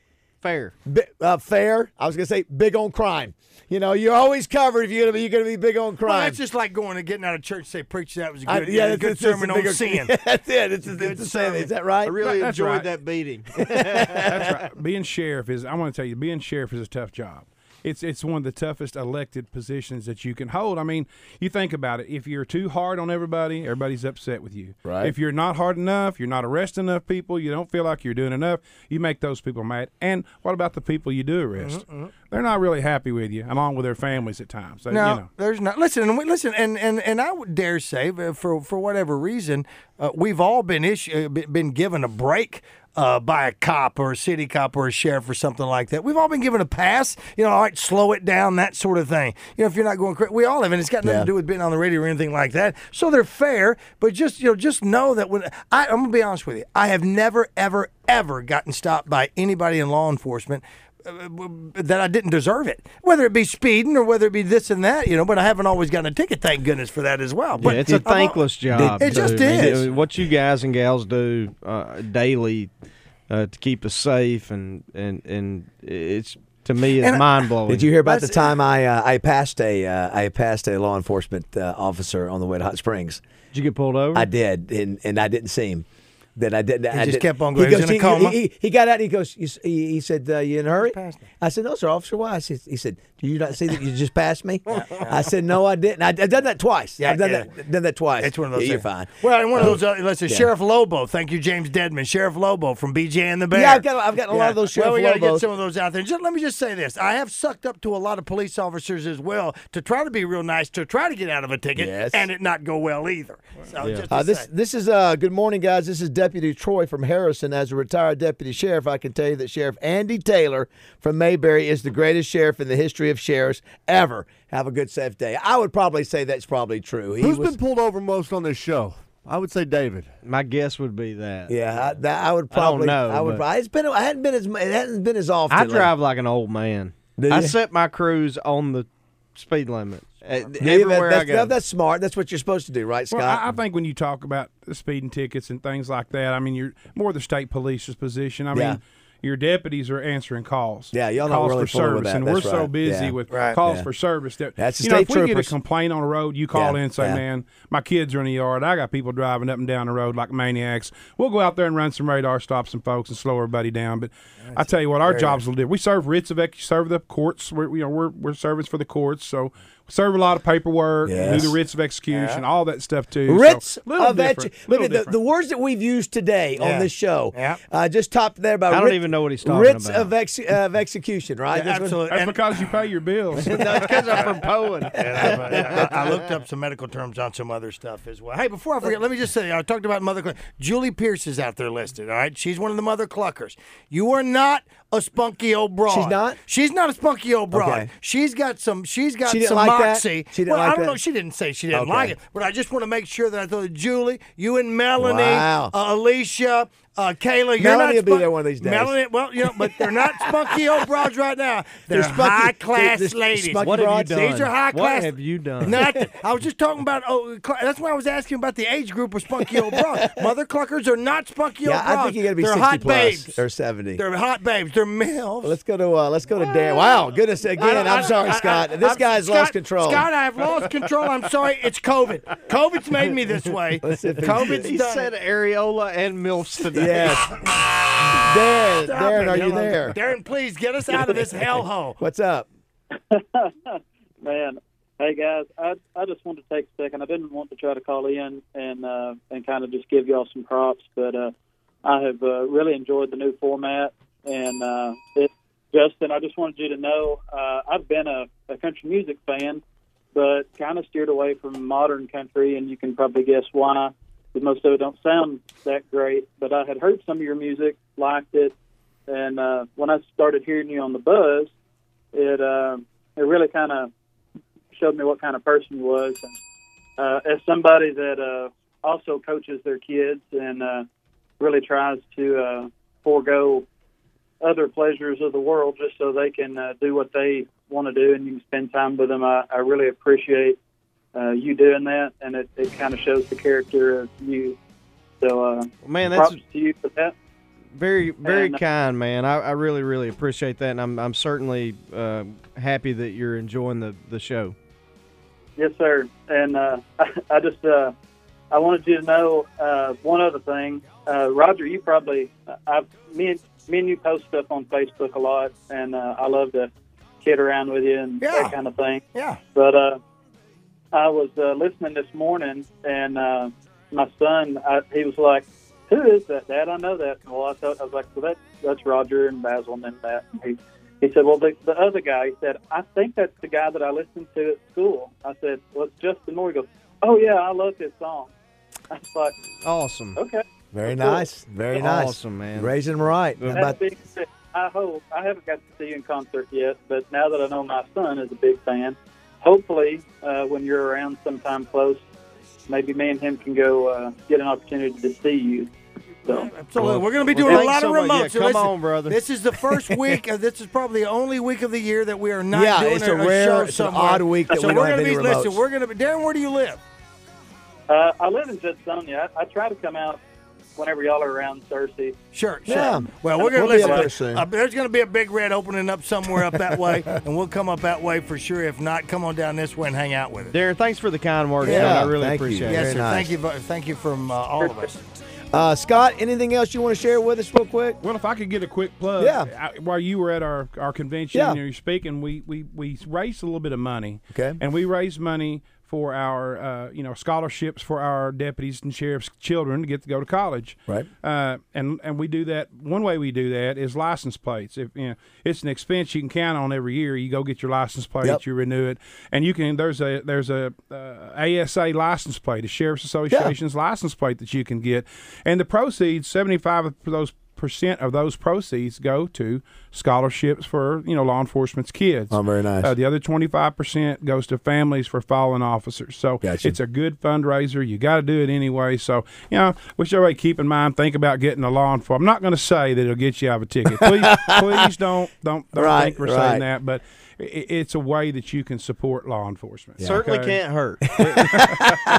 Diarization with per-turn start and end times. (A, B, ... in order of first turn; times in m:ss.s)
0:00.4-0:00.7 A
0:00.8-0:06.4 B
0:06.0-0:10.2 C
0:08.4-0:12.2 B
0:10.8-0:11.7 C
0:12.0-0:14.5 A
0:12.2-0:13.0 D
0:13.6-0:14.3 B
0:14.2-0:35.3 D
0:24.8-0:25.1 B
0:31.6-0:32.1 C
0:34.9-1:09.8 C
0:51.0-0:51.3 B
1:07.6-1:12.7 A
1:07.6-1:08.1 B
1:08.6-1:09.9 B
1:13.3-1:17.9 A
1:17.0-1:17.5 C
1:17.7-1:23.2 B
1:18.0-1:18.6 C
1:23.5-1:24.3 A
1:24.1-1:40.5 B
1:26.9-1:28.4 C
1:30.8-1:31.2 C
1:34.9-1:35.2 C
1:37.0-1:37.5 C
1:38.2-1:54.5 C
1:43.5-1:45.5 B
1:51.7-1:52.3 B
1:53.8-1:54.1 A
1:54.1-2:07.6 B
2:07.2-2:10.1 E
2:10.2-2:13.4 A
2:11.5-2:15.9 B
2:15.5-2:21.6 A
2:17.2-2:17.6 B
2:20.6-2:23.4 B
2:23.1-2:55.2 D
2:28.5-2:28.8 B
2:30.9-2:33.9 B
2:33.3-2:33.6 C
2:34.6-2:35.5 B
2:36.5-2:37.2 B
2:44.5-2:45.4 C
2:51.0-2:51.6 B
2:52.1-2:52.4 C
2:53.3-3:02.0 B
2:56.6-2:57.6 C
2:58.7-3:00.1 A
3:01.5-3:02.6 C
3:02.1-3:04.3 D
3:03.4-3:05.9 A
3:04.9-3:45.6 C
3:05.0-3:05.8 B
3:15.8-3:16.4 B
3:17.5-3:17.9 B
3:19.2-3:21.0 B
3:21.7-3:22.1 B
3:25.0-3:25.7 B
3:27.6-3:29.0 B
3:31.9-3:34.2 B
3:33.6-3:35.8 A
3:35.7-3:36.0 B
3:39.4-3:40.2 B
3:41.6-3:44.0 B
3:45.4-3:50.0 B
3:46.4-3:47.0 C
3:47.6-3:55.1 C
3:53.8-3:54.7 B
3:54.1-3:57.2 A
3:56.7-4:00.0 B
3:58.8-4:02.0 C
4:02.0-4:02.5 B
4:03.1-4:11.3 F
4:11.8-4:19.6 F
4:20.1-4:28.5 F
4:29.1-4:31.5 F
4:32.1-4:33.9 F
4:34.7-4:36.3 F
4:37.0-4:40.8 F
4:41.4-4:43.6 F
4:44.4-4:50.6 F
4:51.1-4:54.6 F
4:55.2-4:57.1 F
4:55.8-4:56.4 A
4:57.7-5:04.6 A
4:58.2-4:58.6 F
5:05.6-5:07.9 F
5:08.5-5:16.7 F
5:17.2-5:20.0 F
5:18.2-5:18.6 C
5:19.1-5:19.4 C
5:20.9-5:38.3 F
5:38.9-5:39.3 F
5:39.6-5:40.2 A
5:40.2-5:41.2 F
5:40.7-5:43.8 B
5:41.7-5:43.7 A
5:43.5-5:52.0 F
5:52.7-5:55.7 F
5:56.2-5:56.5 F
5:56.2-6:06.8 C
5:56.7-5:59.2 A
6:02.5-6:05.6 B
6:07.9-6:10.2 F
6:10.8-6:12.2 F
6:12.3-6:20.6 C
6:12.6-6:14.4 B
6:12.7-6:14.1 F
6:20.5-6:23.1 A
6:21.6-6:23.3 B
6:22.7-6:25.0 C
6:24.6-6:24.9 F
6:25.5-6:28.0 B
6:28.0-7:20.6 D
6:29.2-6:29.5 B
6:31.3-6:31.6 B
6:34.3-6:34.6 B
7:02.3-7:02.9 B
7:06.4-7:06.8 B
7:14.0-7:14.9 B
7:15.7-7:16.6 B
7:20.0-7:21.6 A
7:21.5-7:21.9 D